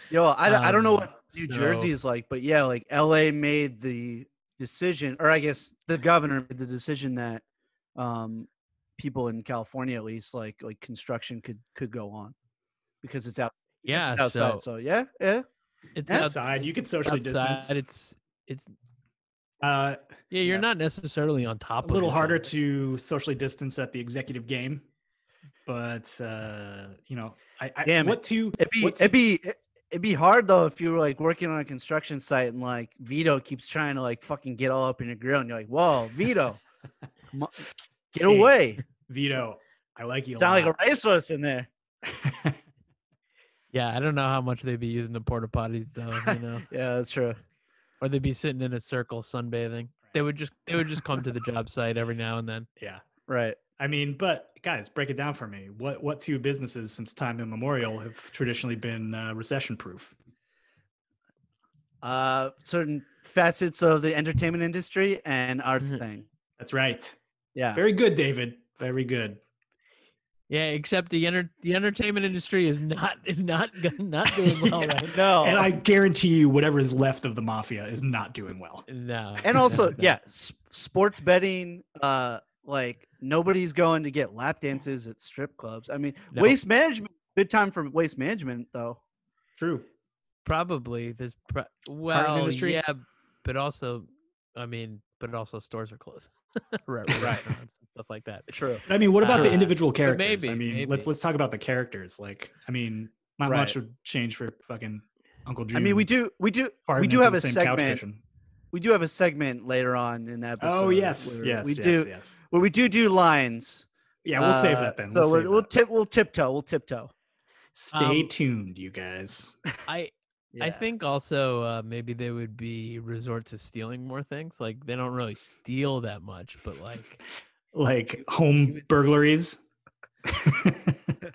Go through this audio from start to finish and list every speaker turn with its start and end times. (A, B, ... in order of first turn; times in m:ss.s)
0:00.1-0:07.4 A
0:00.4-0:01.9 B
0:08.0-0:12.3 A
0:13.0-0:15.4 A
0:13.8-0:14.6 B
0:16.0-0:18.7 B
0:16.1-0:17.8 C
0:19.6-0:20.0 C
0:20.3-0:22.5 B
0:21.8-0:24.8 C
0:25.6-0:29.1 C
0:27.8-0:36.6 A
0:37.3-0:38.8 A
0:38.3-0:40.7 C
0:40.4-0:41.7 A
0:42.0-0:42.6 C
0:43.7-0:46.7 B
0:46.7-0:47.4 A
0:48.0-0:52.7 B
0:52.8-0:53.0 C
0:53.3-0:53.6 A
0:53.8-1:00.2 C
1:02.0-1:06.2 A
1:06.6-1:07.2 C
1:07.5-1:07.8 A
1:07.7-1:09.4 C
1:10.5-1:15.2 B
1:14.5-1:18.8 C
1:15.0-1:15.7 A
1:18.9-1:20.1 B
1:19.4-1:29.0 A
1:26.3-1:26.6 B
1:29.6-1:29.9 C
1:30.4-1:38.5 B
1:32.1-1:32.8 C
1:38.5-1:38.8 A
1:38.9-1:46.1 C
1:39.2-1:41.1 B
1:43.5-1:43.8 A
1:45.7-1:48.0 A
1:46.9-1:48.2 C
1:48.7-1:57.1 A
1:50.6-1:52.4 C
1:54.2-1:55.7 C
1:57.7-1:59.6 C
1:57.9-1:58.3 B
1:59.9-2:07.2 B
2:00.5-2:00.8 A
2:07.7-2:09.6 C
2:10.2-2:11.1 C